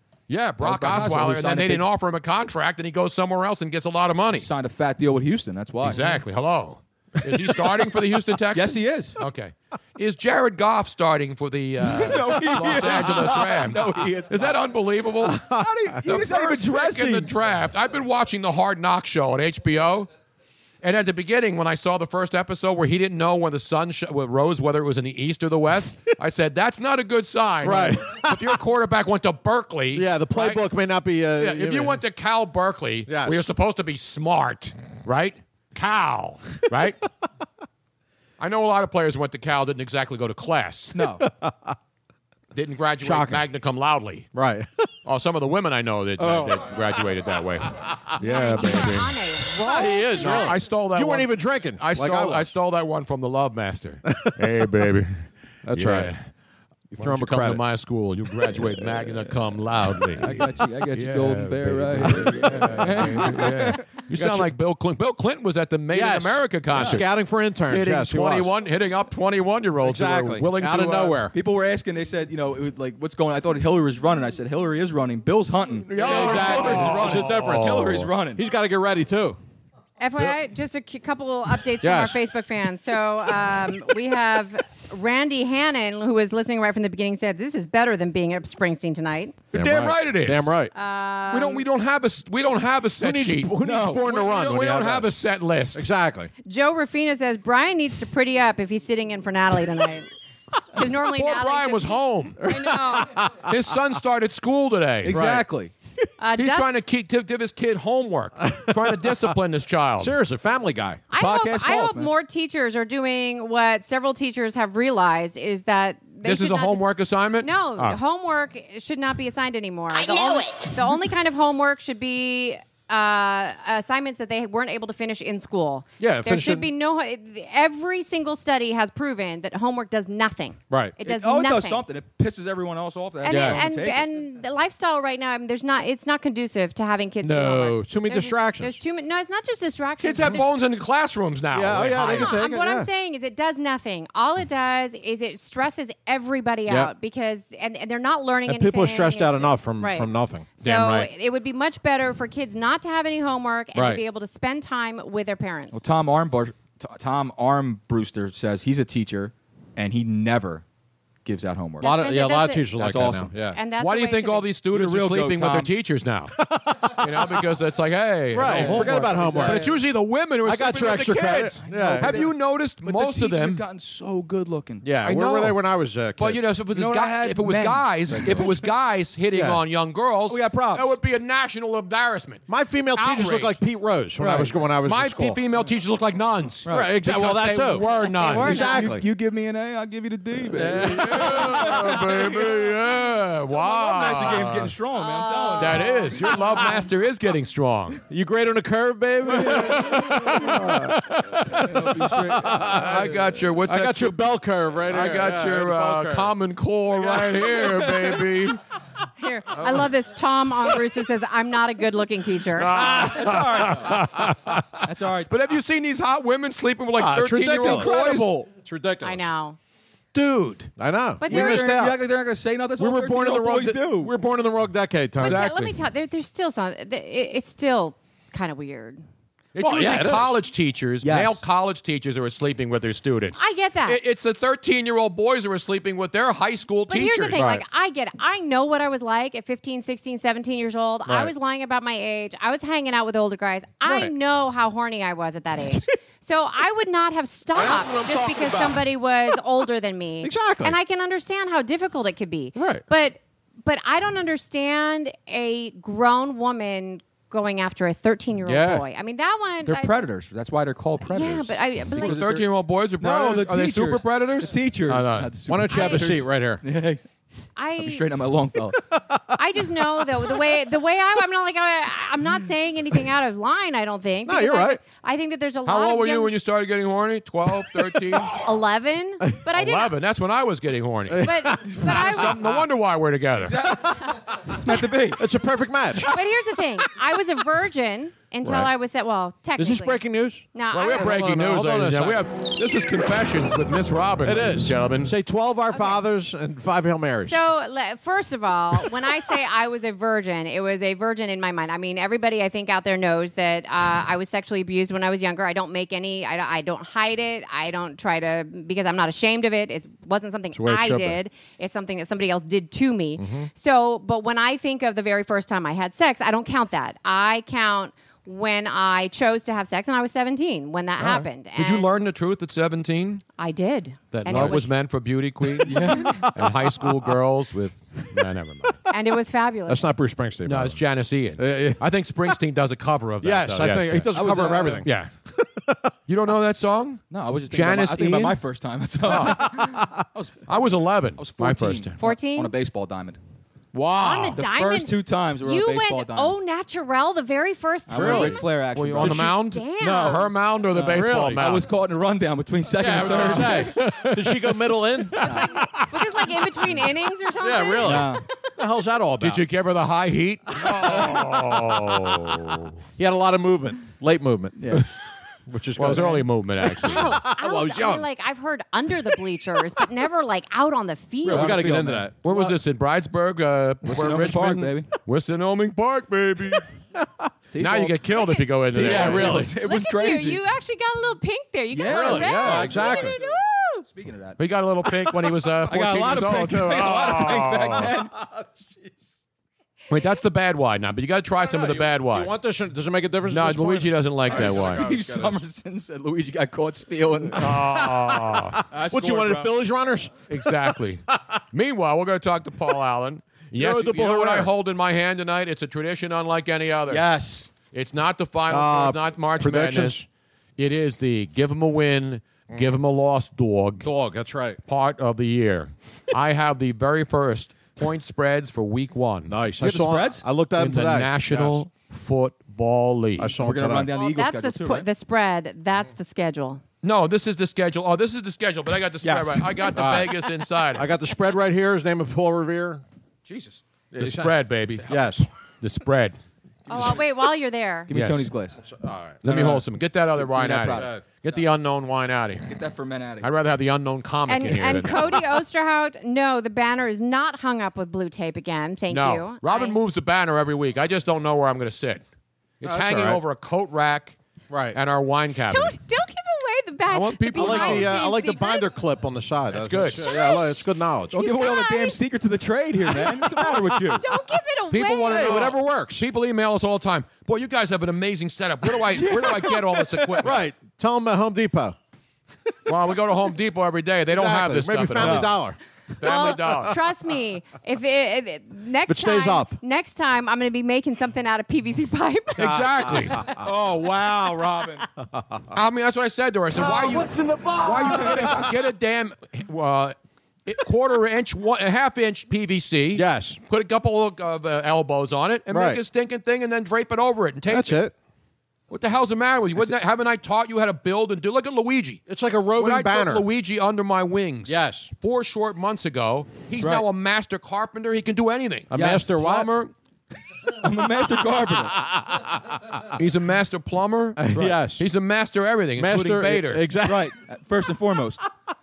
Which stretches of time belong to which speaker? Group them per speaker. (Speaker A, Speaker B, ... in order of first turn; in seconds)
Speaker A: 0.3-4.5, 5.8-15.5, 16.0-20.1, 20.8-30.6, 31.4-37.0, 38.4-41.0, 42.5-44.3, 45.0-49.2, 50.2-56.3, 57.0-67.1, 67.7-71.2, 75.9-78.0, 89.5-90.5, 91.3-95.9, 101.0-102.4, 103.4-105.2, 106.4-110.2, 116.2-118.0, 140.0-142.4, 150.6-151.1, 163.8-166.4, 166.9-173.6, 175.0-175.6, 176.2-182.4, 183.0-183.6, 184.8-188.8, 190.7-194.7, 195.6-198.0, 199.3-204.3, 204.8-208.6, 209.6-209.9, 212.6-218.3, 220.1-220.7, 225.2-225.8, 229.5-237.5, 261.9-265.3, 275.6-278.4, 279.6-283.6, 290.7-295.1, 321.6-323.2, 324.1-328.8, 330.4-335.1, 336.1-338.4, 339.1-339.5, 340.5-342.0, 348.7-351.7, 353.0-354.6, 355.2-355.9, 359.2-362.8, 365.8-367.2, 372.2-376.6, 377.6-379.5, 384.4-387.9, 389.9-392.3, 393.3-394.9, 397.4-398.6, 400.3-407.1, 407.6-410.0, 410.6-413.9, 414.7-419.4, 420.6-423.4, 426.8-430.9, 433.3-435.0, 435.6-436.2, 437.9-438.3, 439.2-442.5, 443.2-445.2, 448.9-452.0, 452.6-454.2, 454.7-455.8, 456.9-457.9, 459.5-460.1, 464.7-470.4, 472.7-475.3, 476.0-476.8, 482.4-483.2, 485.5-497.8, 498.7-502.0, 502.6-509.7, 513.0-516.7
Speaker B: 0.6-1.9, 4.3-6.2, 8.5-9.2, 11.8-14.6, 15.5-17.3, 40.9-41.2, 46.2-46.7, 60.2-63.8, 66.7-67.0, 71.3-78.4, 93.6-94.1, 105.0-105.7, 111.2-112.1, 131.0-134.1, 155.7-160.6, 161.2-161.9, 162.8-163.3, 164.7-165.7, 168.4-169.8, 171.4-174.9, 176.7-178.7, 180.3-180.9, 184.2-184.6, 186.7-187.1, 188.2-192.6, 193.5-196.2, 199.3-199.8, 201.7-202.9, 212.7-214.1, 214.8-215.3, 217.5-218.5, 221.3-224.1, 231.0-231.4, 259.6-267.1, 267.8-268.8, 281.7-282.6, 283.4-285.2, 325.6-326.2, 334.1-334.9, 337.1-343.2, 344.3-346.4, 347.9-353.7, 357.8-358.2, 360.9-361.2, 364.6-364.9, 371.2-372.5, 373.8-374.9, 377.5-378.0, 378.7-380.4, 381.7-384.4, 385.6-388.1, 394.3-397.5, 398.7-399.6, 406.9-407.5, 419.6-420.2, 423.4-424.9, 429.0-429.7, 437.9-438.6, 439.2-439.6, 440.1-440.9, 442.5-443.3, 461.1-464.0, 468.9-470.3, 474.9-475.3, 483.4-484.9, 486.7-488.4, 506.6-506.9, 508.7-509.1, 510.6-511.8, 516.8-518.2
Speaker C: 15.2-15.7, 27.6-28.6, 29.9-32.0, 33.1-33.4, 41.2-41.8, 43.0-43.4, 44.3-44.8, 48.2-52.5, 54.1-54.3, 55.6-56.1, 56.9-57.6, 58.5-59.3, 62.0-63.5, 64.1-64.5, 65.9-68.5, 69.8-71.3, 75.9-79.4, 81.8-82.2, 89.5-90.7, 93.0-95.1, 95.7-96.3, 102.4-103.5, 105.1-105.4, 108.5-109.2, 110.0-111.0, 126.0-126.7, 130.7-131.0, 133.3-133.6, 137.2-138.8, 141.5-142.9, 148.5-150.5, 153.8-154.0, 161.8-163.6, 166.4-167.4, 168.3-169.7, 170.4-172.2, 174.8-176.4, 178.2-178.5, 179.3-179.6, 182.5-185.4, 186.7-189.1, 190.5-192.5, 198.1-206.3, 206.9-208.2, 217.0-217.9, 218.5-219.2, 220.8-222.0, 222.8-225.5, 229.6-230.3, 237.4-237.6, 243.8-244.1, 247.5-248.9, 250.2-250.8, 252.6-252.8, 258.4-258.8, 265.5-266.6, 274.3-274.8, 281.1-281.8, 285.1-286.1, 288.4-288.7, 289.6-292.3, 294.2-297.4, 310.5-311.2, 313.2-313.5, 324.3-324.6, 326.1-326.5, 329.7-330.8, 331.4-331.8, 333.2-335.9, 339.1-340.0, 343.7-344.4, 347.9-348.4, 350.7-351.5, 352.7-355.2, 357.4-359.4, 363.0-364.8, 365.5-368.1, 371.2-372.3, 377.0-377.3, 378.8-379.5, 381.9-383.2, 385.9-386.3, 388.1-389.0, 391.4-395.4, 397.4-401.4, 403.5-404.5, 408.5-410.1, 413.8-414.6, 419.3-421.6, 423.2-423.9, 429.8-430.2, 430.7-432.8, 433.9-435.3, 438.6-439.2, 440.7-441.0, 452.6-453.2, 454.5-454.8, 457.4-461.2, 465.1-466.1, 470.2-471.8, 474.1-475.6, 478.9-479.6, 482.5-483.4, 485.1-485.4, 487.9-488.4, 492.9-493.4, 495.5-495.8, 497.5-497.9, 502.1-503.3, 504.5-504.9, 508.7-509.5, 511.9-512.8, 514.2-514.9, 515.8-517.1
Speaker D: 48.2-50.5, 80.0-89.4, 90.8-91.7, 96.5-100.1, 100.7-103.1, 106.2-106.8, 111.1-116.8, 117.4-131.8, 133.2-140.5, 142.0-155.8, 161.8-162.7, 163.5-164.5, 188.3-188.7, 195.0-196.0, 209.2-212.9, 219.0-219.6, 221.2-221.7, 225.2-229.0, 233.3-234.0, 236.9-260.0, 261.1-262.2, 265.7-266.1, 267.6-268.1, 269.3-276.3, 278.4-279.9, 281.2-282.4, 286.1-290.0, 290.5-291.1, 295.7-296.0, 297.2-321.9, 323.4-324.8, 328.9-329.9, 342.0-342.5, 344.0-348.5, 349.2-350.3, 355.2-358.3, 366.9-371.7, 378.1-378.5, 379.6-383.9, 423.9-426.6, 436.7-437.9, 444.3-449.8, 455.5-458.7, 460.0-462.0, 464.0-465.4, 476.0-483.3